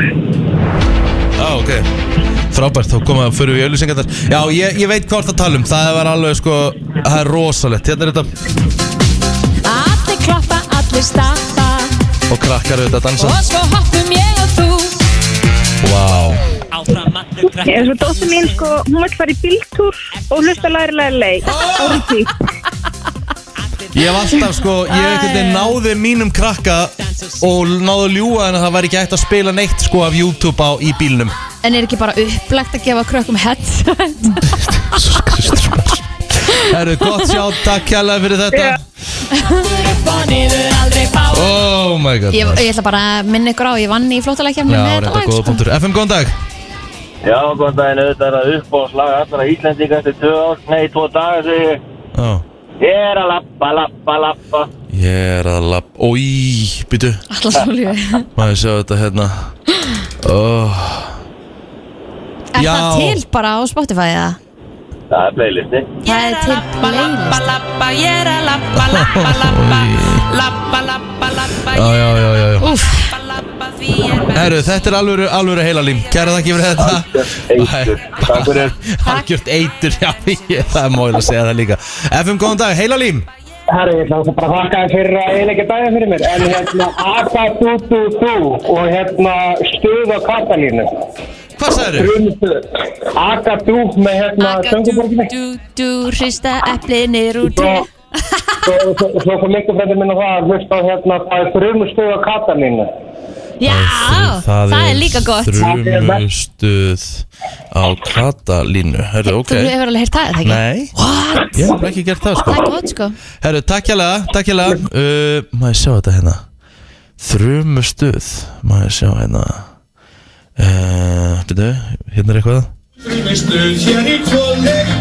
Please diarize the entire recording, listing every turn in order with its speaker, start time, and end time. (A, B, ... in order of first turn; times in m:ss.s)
0:01.4-0:01.9 A
0:02.5-0:08.3 A
0:09.6-0:11.9 B
0:12.3-0:13.4 A
0:13.2-0:14.9 B
0:15.8-0:16.4 A
0:17.5-0:22.3 C
0:21.4-0:22.1 A
0:23.9-0:31.4 A
0:24.9-0:25.8 B
0:31.6-0:34.5 B
0:34.5-0:38.8 A
0:39.4-0:39.7 B
0:39.9-0:41.2 D
0:41.3-0:42.7 A
0:42.3-0:45.6 B
0:44.7-0:46.4 A
0:47.2-0:51.8 E
0:52.1-0:52.4 A
0:52.8-0:54.7 E
0:54.9-0:57.2 A
0:57.3-0:58.3 B
0:58.4-0:59.5 A
1:00.2-1:01.2 A
1:02.5-1:04.4 B
1:02.6-1:03.2 A
1:05.1-1:05.9 E
1:06.0-1:11.8 D
1:06.0-1:07.5 B
1:08.7-1:10.3 A
1:11.7-1:12.7 A
1:12.6-1:13.1 B
1:13.1-1:14.4 D
1:14.3-1:23.3 A
1:16.8-1:18.7 E
1:23.7-1:30.9 F
1:31.6-1:32.1 A
1:32.0-1:35.3 F
1:34.4-1:37.9 B
1:37.5-1:37.8 F
1:38.6-1:42.9 F
1:43.6-1:45.7 B
1:43.6-1:49.7 A
1:45.7-1:46.2 F
1:49.2-1:51.8 B
1:50.4-1:50.9 A
1:51.5-1:52.6 A
1:52.4-1:53.2 B
1:53.4-1:56.4 A
1:57.2-1:59.7 A
2:00.6-2:02.7 A